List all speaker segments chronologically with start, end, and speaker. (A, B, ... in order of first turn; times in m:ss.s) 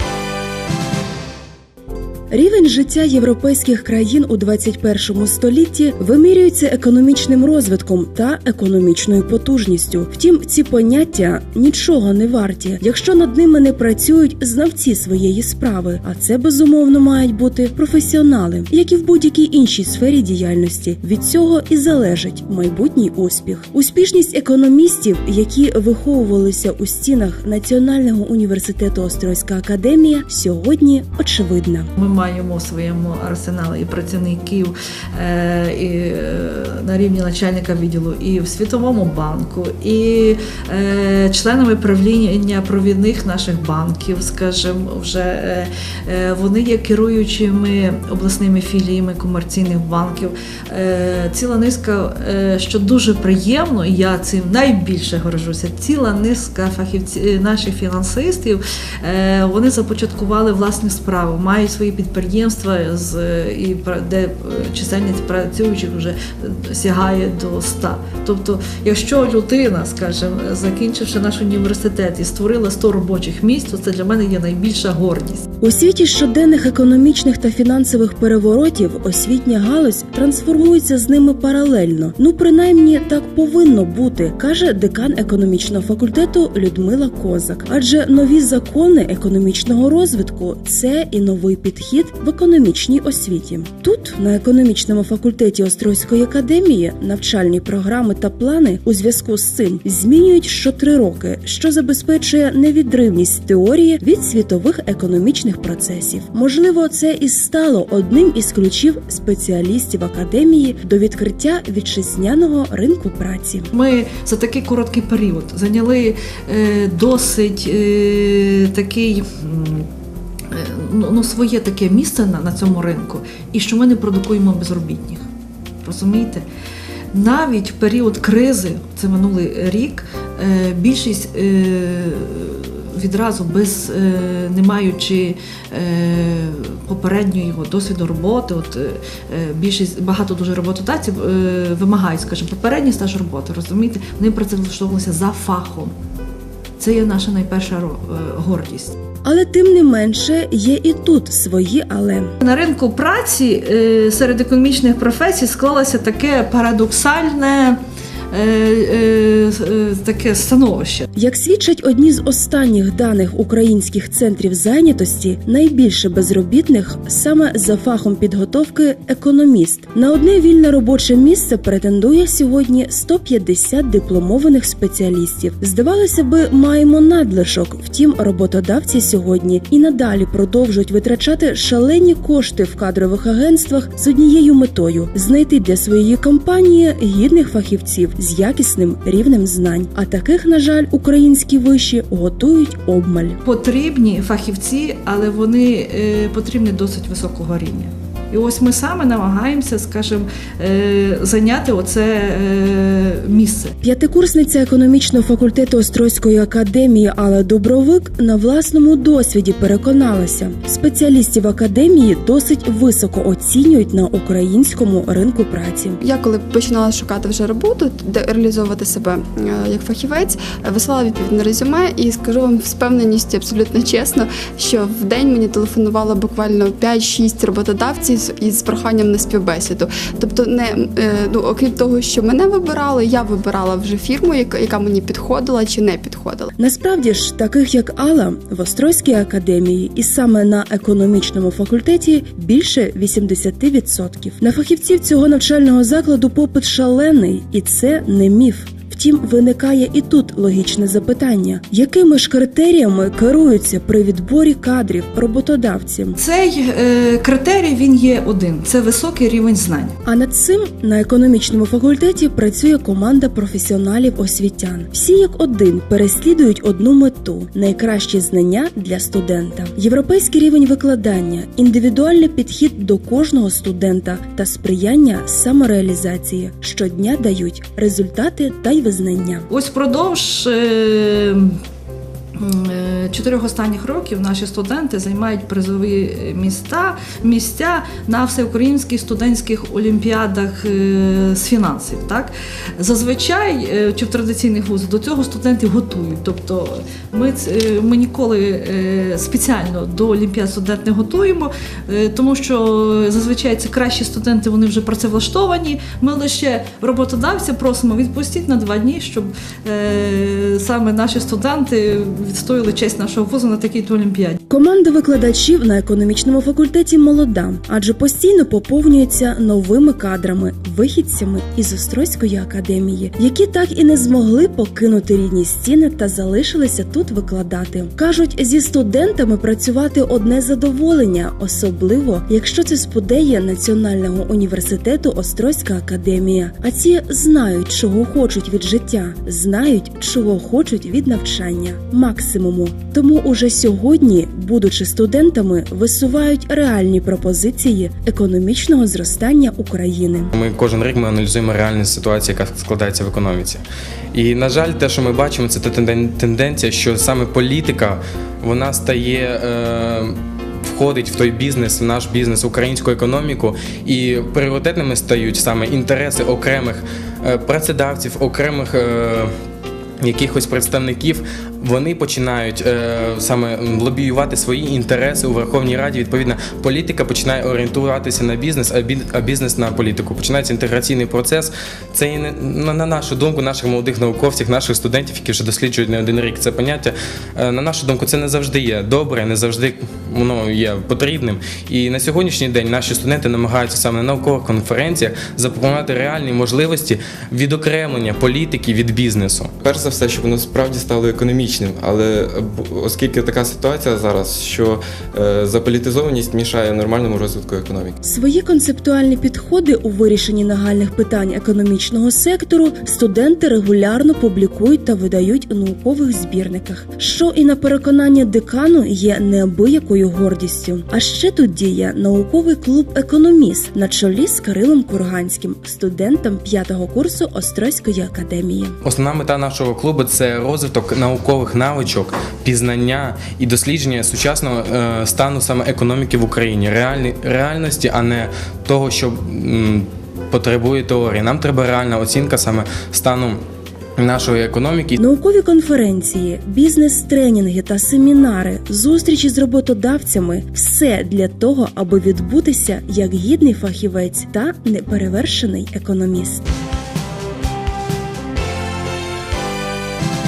0:02.3-0:31.9 A
0:32.0-1:15.4 B
1:15.6-1:53.7 A
1:53.7-1:59.9 B
2:00.5-2:05.3 B
2:05.8-2:06.5 B
2:07.1-2:25.9 B
2:26.8-2:29.0 B
2:29.2-2:32.3 A
2:32.4-2:37.8 B
2:38.3-2:41.0 B
2:41.1-3:13.4 A
3:13.4-3:23.7 B
3:23.8-3:36.0 A
3:36.0-3:56.5 C
3:56.6-4:16.2 A
4:16.2-4:20.0 B
4:20.0-4:39.5 A
4:39.5-4:41.5 B
4:42.4-5:14.4 B
5:14.5-5:50.3 A
5:50.3-6:09.3 D
6:10.0-6:39.5 D
6:39.6-6:48.0 E
6:48.0-7:08.8 A
7:08.8-7:23.4 D
7:24.0-7:25.0 D
7:25.0-7:36.4 A